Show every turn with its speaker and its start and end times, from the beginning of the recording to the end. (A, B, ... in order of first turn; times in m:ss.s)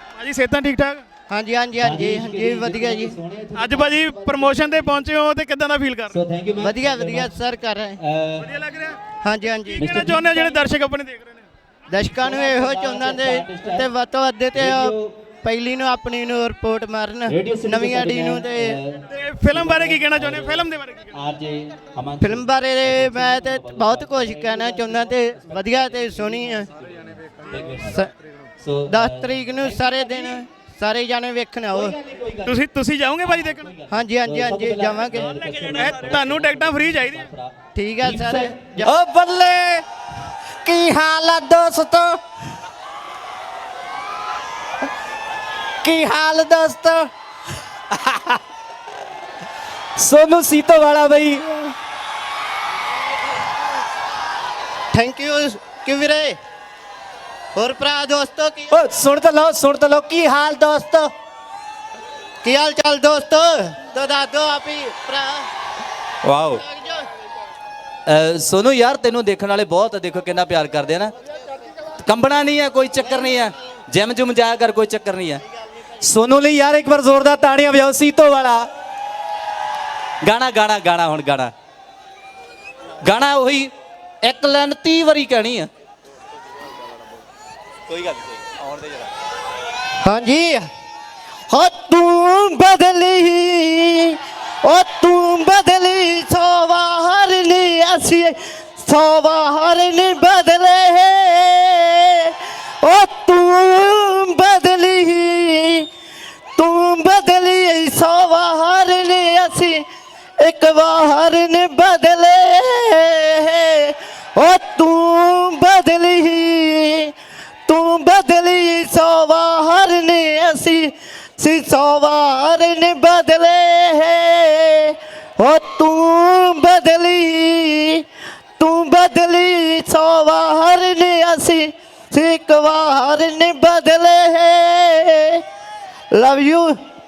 0:00.2-0:01.0 A
0:01.3-0:03.2 B
0:01.8-0:04.8 C
0:03.5-0:06.2 A
0:06.1-0:07.3 C
0:06.6-0:08.0 B
0:08.0-0:08.6 C
0:08.4-0:09.0 A
0:09.2-0:10.0 B
0:09.7-0:11.4 A
0:09.8-0:10.7 C
0:11.9-0:18.8 B
0:12.0-0:13.9 C
0:14.5-0:15.2 C
0:17.3-0:28.0 C
0:19.1-0:21.1 A
0:22.2-0:26.7 B
0:27.8-0:28.1 B
0:28.6-0:30.4 C
0:28.9-0:32.0 B
0:31.7-0:32.6 C
0:32.4-0:33.7 A
0:33.2-0:39.8 C
0:33.9-0:35.3 B
0:35.4-0:37.3 A
0:37.7-0:38.9 B
0:40.6-0:42.2 C
0:45.8-0:47.1 C
0:47.9-0:48.4 C
0:50.0-0:51.7 C
0:54.9-0:56.4 B
0:57.5-0:58.7 B
0:58.7-1:01.1 C
1:02.4-1:05.5 B
1:06.2-1:06.6 C
1:06.6-1:07.0 B
1:08.0-1:11.1 C
1:12.0-1:15.4 C
1:16.0-1:18.7 C
1:20.2-1:21.5 C
1:23.0-1:23.7 C
1:24.2-1:25.7 C
1:27.9-1:29.1 C
1:30.0-1:30.6 B
1:31.5-1:45.9 B
1:46.6-1:49.8 B
1:50.4-1:57.1 B
1:57.7-2:08.0 B
2:08.6-2:15.4 B
2:16.1-2:16.8 B